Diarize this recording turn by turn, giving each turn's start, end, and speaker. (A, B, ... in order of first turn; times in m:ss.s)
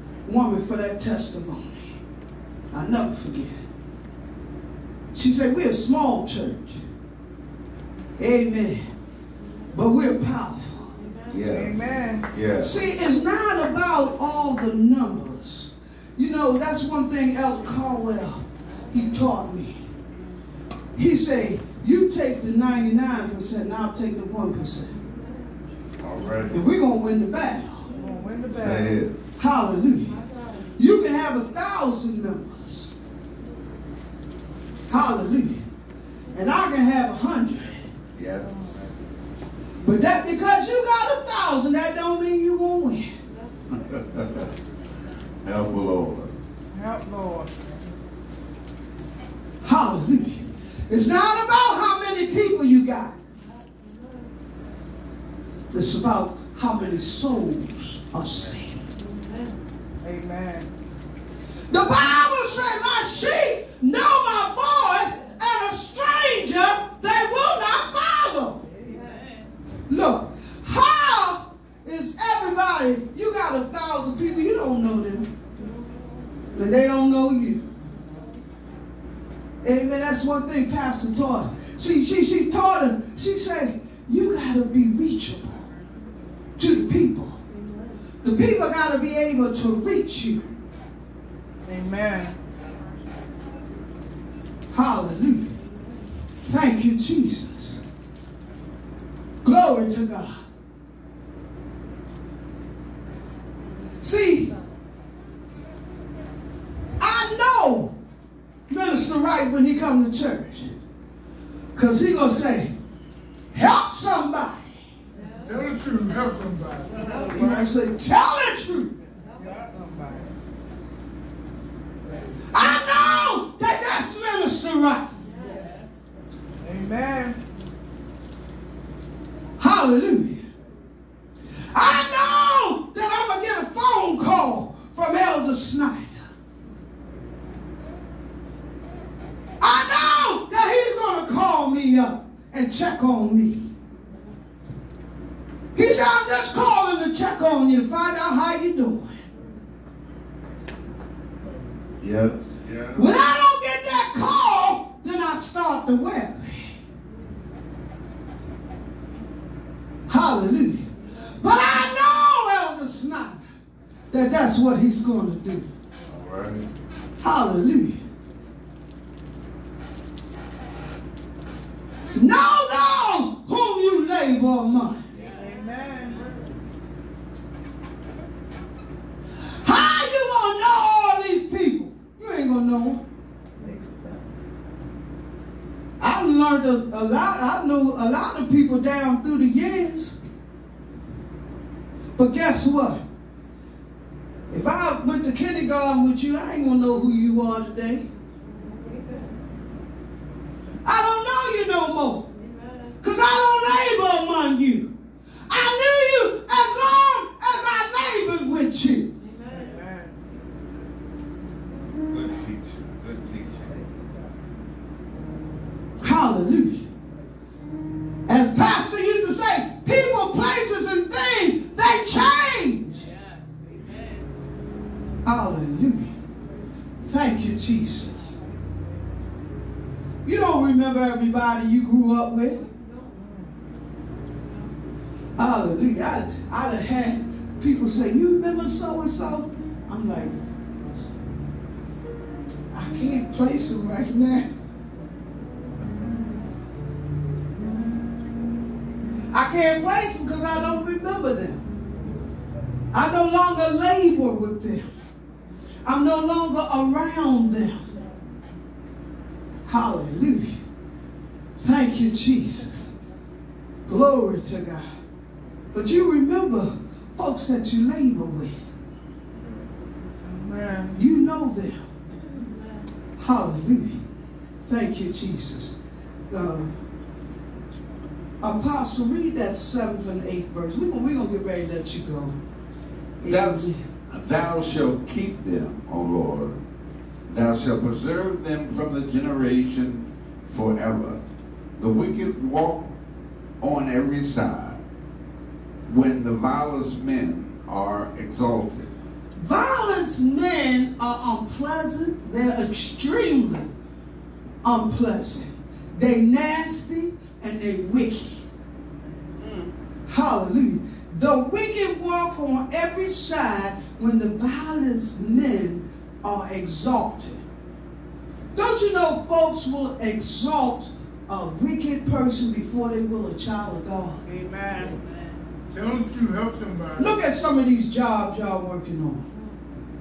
0:00.2-0:02.0 A
0:02.7-0:03.6 A
0:05.1-0:06.8 A
0:08.2-0:08.9 A
0:09.7-0:11.0 A
0:11.3-0:12.8 B
0:11.5-0:12.3 C
0:12.6-0:19.9 A
0:21.0-0:24.9 A
0:26.0-0:26.6 B
0:26.5-0:27.9 A
0:27.9-0:29.0 C
0:28.5-0:29.1 B
0:29.4-0:30.2 A
0:30.8-0:32.9 A
0:34.9-0:35.6 A
0:36.3-0:37.9 A
0:38.1-0:38.7 B
0:39.8-0:43.1 A
0:43.7-0:44.5 B
0:45.4-0:46.3 B
0:46.7-0:47.5 C
0:49.6-0:53.1 A
0:55.7-0:58.9 A
1:00.0-1:00.7 C
1:01.7-1:08.7 A
1:09.9-1:15.3 A
1:16.5-1:17.6 A
1:19.6-1:25.7 A
1:26.6-1:27.4 A
1:28.2-1:30.4 A
1:31.6-1:32.4 C
1:34.7-1:35.5 A
1:36.4-1:37.8 A
1:39.4-1:40.4 A
1:44.0-1:44.5 A
1:47.0-1:47.9 A
1:48.7-1:50.8 A
1:51.7-1:52.7 A
1:53.5-1:54.7 A
1:55.4-1:57.7 D
1:57.3-1:58.9 A
1:59.4-2:00.3 C
2:02.5-2:05.1 A
2:06.6-2:07.4 C
2:09.6-2:10.4 A
2:11.7-2:16.2 A
2:19.6-2:23.7 A
2:25.7-2:29.2 A
2:32.0-2:33.1 B
2:32.9-2:36.8 A
2:40.1-2:43.4 A
2:44.1-2:45.7 A
2:46.1-2:46.6 B
2:47.2-2:48.0 A
2:52.1-2:55.0 A
2:55.2-2:56.3 C
2:59.6-3:03.0 A
3:03.6-3:04.0 C
3:06.0-3:10.2 A
3:12.2-3:13.0 A
3:14.5-3:18.1 A
3:20.8-3:22.3 A
3:23.0-3:24.9 A
3:25.5-3:29.1 A
3:29.4-3:30.1 C
3:32.1-3:33.8 B
3:36.0-3:36.9 A
3:38.3-3:43.1 A
3:45.2-3:46.1 A
3:47.0-3:48.3 A
3:50.2-3:52.6 A
3:53.2-3:53.4 C
3:55.4-4:00.4 A
4:02.7-4:04.5 A
4:09.3-4:11.6 A
4:12.9-4:14.9 A
4:15.8-4:17.9 A
4:19.6-4:20.6 A
4:21.6-4:22.9 A
4:23.8-4:24.8 A
4:25.7-4:28.6 A
4:30.2-4:31.0 C
4:31.0-4:31.9 A
4:33.2-4:34.0 A
4:34.6-4:35.7 A
4:36.3-4:36.7 A
4:38.4-4:42.4 A
4:43.2-4:43.8 A
4:43.2-4:46.6 B
4:47.3-4:51.2 B
4:51.8-4:52.9 B
4:53.6-4:54.8 B
4:55.9-4:58.9 B
4:59.4-5:03.7 A
5:04.6-5:08.4 A
5:10.0-5:17.4 A
5:18.5-5:24.2 A
5:24.3-5:25.0 C
5:25.7-5:27.1 D
5:27.0-5:29.2 A